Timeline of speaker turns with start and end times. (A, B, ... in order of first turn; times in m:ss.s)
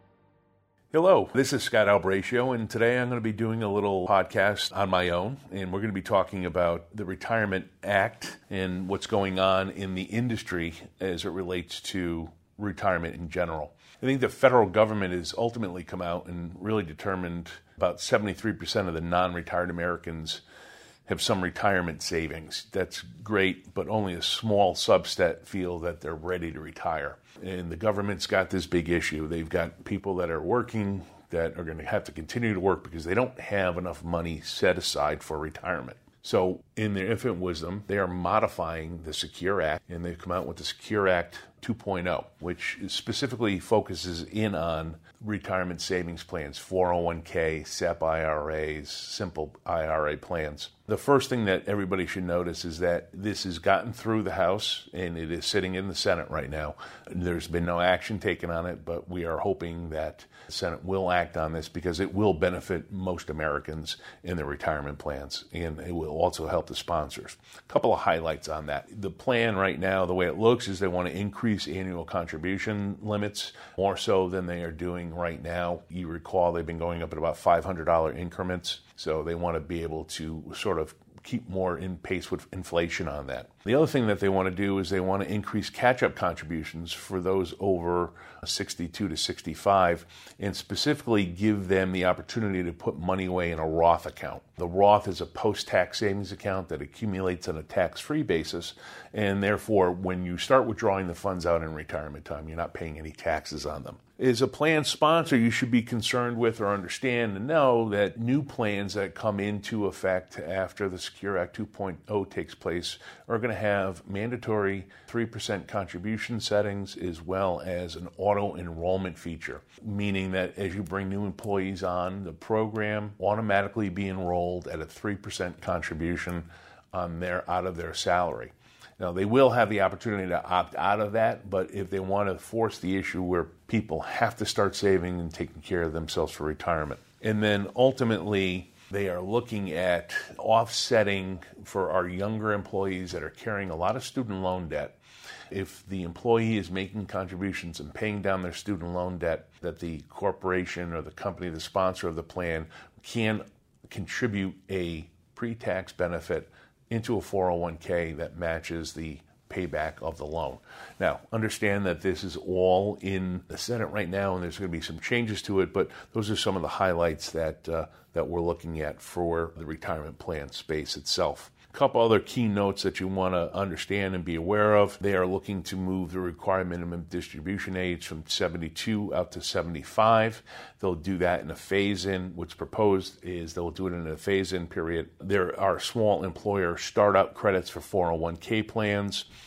0:00.9-0:20.4 A
0:21.1-2:25.0 A
2:25.5-3:09.2 A